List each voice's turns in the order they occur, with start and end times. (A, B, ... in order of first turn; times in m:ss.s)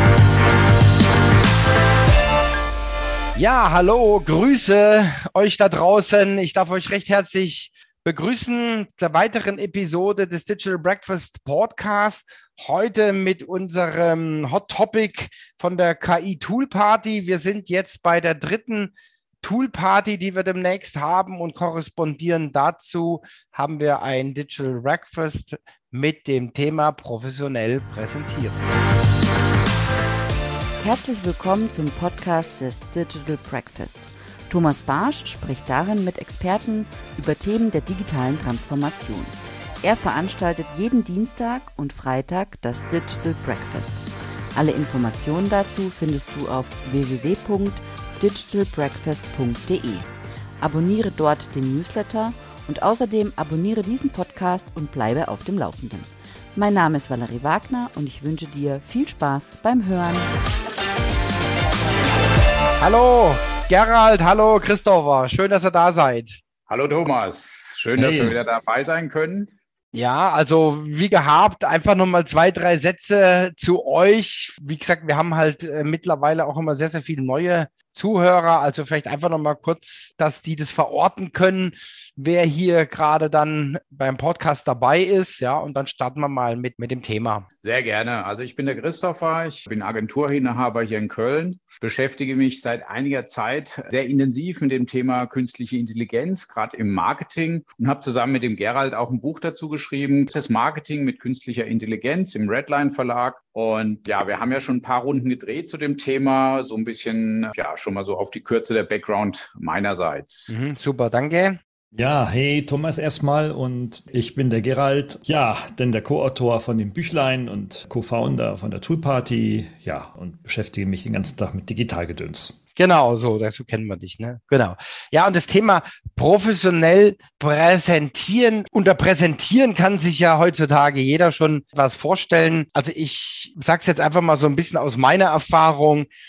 0:03.3-0:28.6 A
0:30.8-0:50.1 B
0:50.6-1:00.3 B
1:02.8-1:06.4 A
1:06.7-1:09.5 C
1:08.0-1:08.4 D
1:09.9-1:27.4 A
1:27.6-1:50.5 C
1:50.5-1:51.6 A
1:51.9-2:02.6 D
2:02.8-2:16.1 A